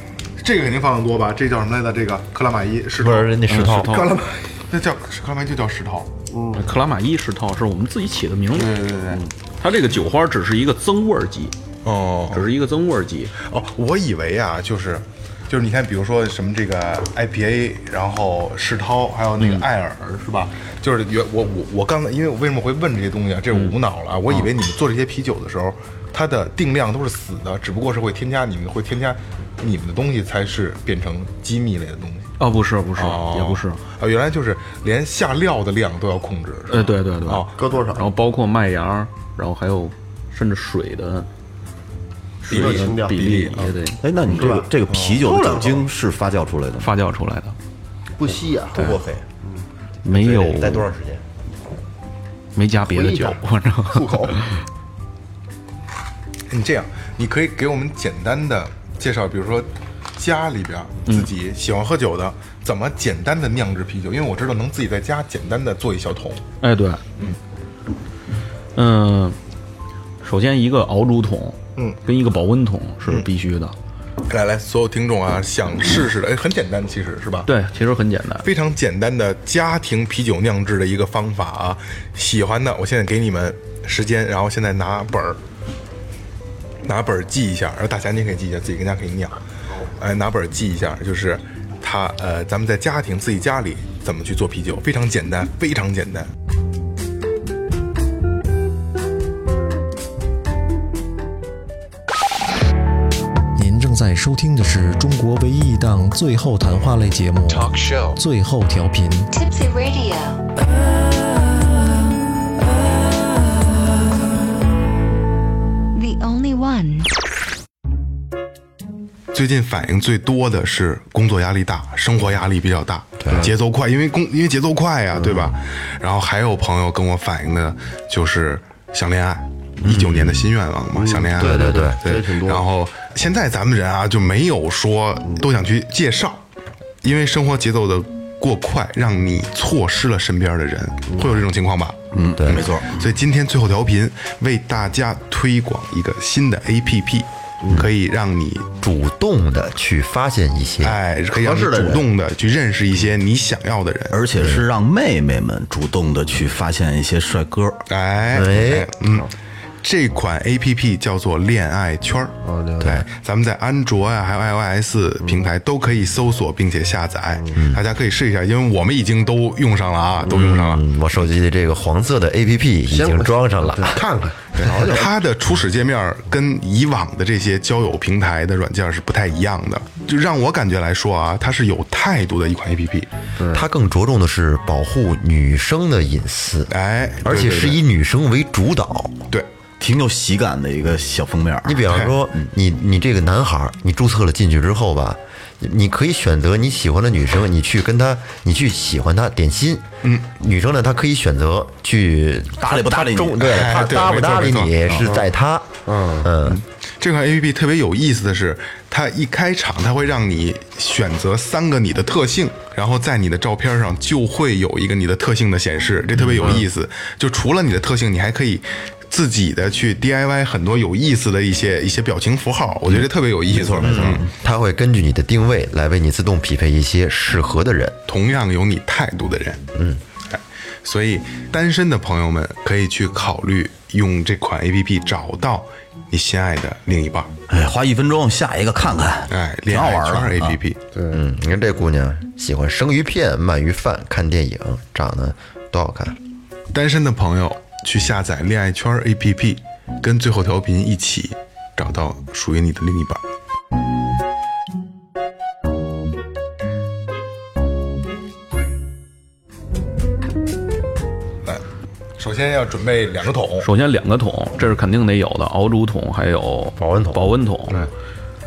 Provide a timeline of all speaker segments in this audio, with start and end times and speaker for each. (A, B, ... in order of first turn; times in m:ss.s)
0:00.4-0:03.4 A
0:03.0-0:04.1 B
0:03.5-0:04.2 C
0:04.0-0:06.1 A
0:06.3-0:06.6 D
0:06.5-0:11.6 C
0:08.5-0:09.2 A
0:11.8-0:12.5 A
0:12.3-0:13.4 C
0:13.4-0:32.3 A
0:19.4-0:19.7 C
0:32.4-0:33.8 C
0:33.0-0:37.6 A
0:36.7-0:41.3 C
0:37.6-0:38.1 D
0:42.4-0:44.5 C
0:42.5-0:43.7 D
0:42.8-0:43.5 A
0:44.0-0:46.9 E
0:44.3-0:44.7 D
0:44.9-0:45.2 A
0:45.3-0:45.9 D
0:46.8-0:47.6 C
0:48.2-0:49.6 D
0:48.7-0:49.2 B
0:50.0-0:50.9 C
0:50.1-0:51.2 B
0:52.6-0:54.6 C
0:52.8-0:54.4 D
0:56.5-1:06.4 A
1:06.6-1:07.0 C
1:08.8-1:09.4 C
1:10.2-1:13.8 C
1:14.3-1:17.5 A
1:17.5-1:18.5 C
1:18.4-1:25.4 A
1:26.8-1:29.4 A
1:30.0-1:36.3 A
1:43.6-1:49.3 F
1:49.3-1:50.4 G
1:55.9-1:57.1 G
1:59.3-2:16.4 A
2:03.2-2:03.5 B
2:05.2-2:05.5 D
2:09.8-2:10.5 B
2:11.0-2:12.6 D
2:11.4-2:12.0 B
2:17.0-2:28.7 A
2:22.1-2:23.0 E
2:28.8-2:31.0 B
2:30.8-2:34.2 A
2:31.5-2:32.0 E
2:34.1-2:37.8 E
2:34.4-2:34.6 B
2:37.9-2:39.3 A
2:38.3-2:38.9 B
2:39.8-2:50.8 A
2:42.4-2:43.0 D
2:47.5-2:47.8 B
2:50.2-2:54.1 B
2:52.9-2:55.1 D
2:54.6-3:03.1 A
3:03.4-3:03.6 D
3:03.5-3:09.2 B
3:06.7-3:07.8 A
3:07.3-3:07.8 E
3:09.8-3:11.8 E
3:11.6-3:26.6 B
3:11.9-3:12.2 A
3:22.6-3:23.6 E
3:23.4-3:25.1 A
3:25.0-3:25.3 D
3:25.9-3:26.3 D
3:26.4-3:44.2 A
3:36.3-3:36.6 E
3:43.0-3:44.3 E
3:43.8-3:48.0 B
3:48.1-3:49.6 A
3:49.8-3:50.0 B
3:50.3-3:57.3 A
3:57.5-4:00.6 E
3:59.3-4:00.8 A
4:01.0-4:01.2 D
4:01.1-4:06.2 B
4:06.7-4:13.2 A
4:22.2-4:23.7 A
4:23.6-4:27.9 C
4:26.8-4:27.9 B